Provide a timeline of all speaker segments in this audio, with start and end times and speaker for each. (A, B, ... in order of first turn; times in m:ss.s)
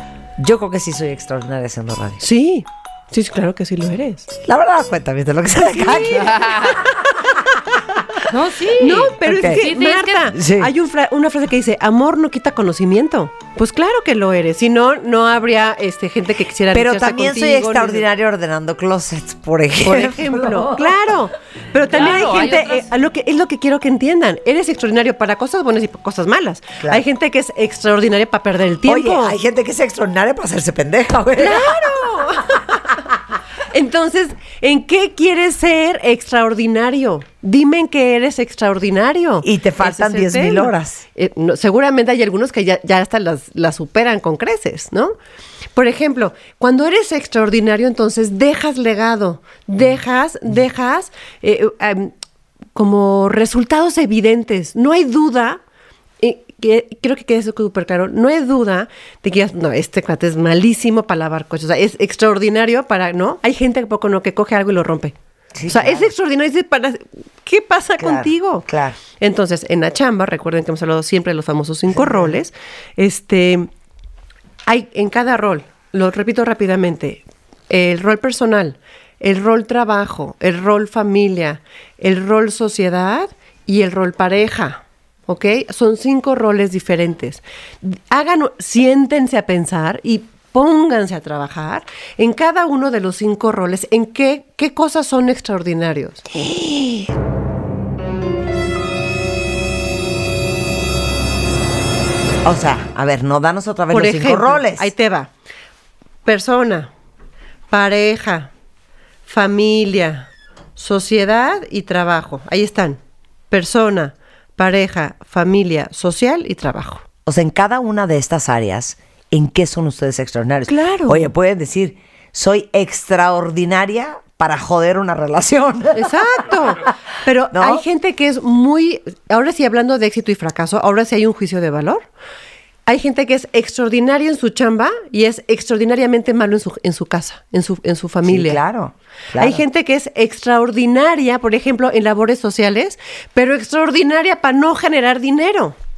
0:00.4-0:02.2 A
0:02.2-0:04.3 B
0:04.4-0:08.2 A
0:05.8-0:06.3 B
0:06.1-0:06.8 C
0:08.3-0:10.3 C
0:08.8-0:18.0 B
0:09.2-0:09.6 A
0:10.3-0:10.7 A
0:16.7-0:21.0 A
0:19.8-0:29.4 B
0:21.9-0:22.9 C
0:28.9-0:32.5 A
0:31.4-0:32.8 B
0:33.7-0:45.1 B
0:39.4-0:41.0 A
0:45.8-0:52.1 B
0:52.7-0:55.6 B
0:56.2-1:05.1 B
1:05.5-1:06.1 A
1:05.7-1:08.6 B
1:08.0-1:09.0 A
1:09.2-1:13.7 B
1:11.9-1:12.4 A
1:14.6-1:36.2 B
1:36.3-1:37.1 A
1:42.4-1:44.9 A
1:43.9-1:45.3 B
1:46.2-1:46.9 B
1:47.7-1:48.5 B
1:49.3-1:53.0 B
1:53.5-1:57.0 B
1:57.2-2:06.1 A
2:00.7-2:01.3 B
2:05.9-2:12.0 B
2:07.5-2:07.8 A
2:12.8-2:18.6 B
2:18.2-2:19.6 A
2:19.4-2:25.8 B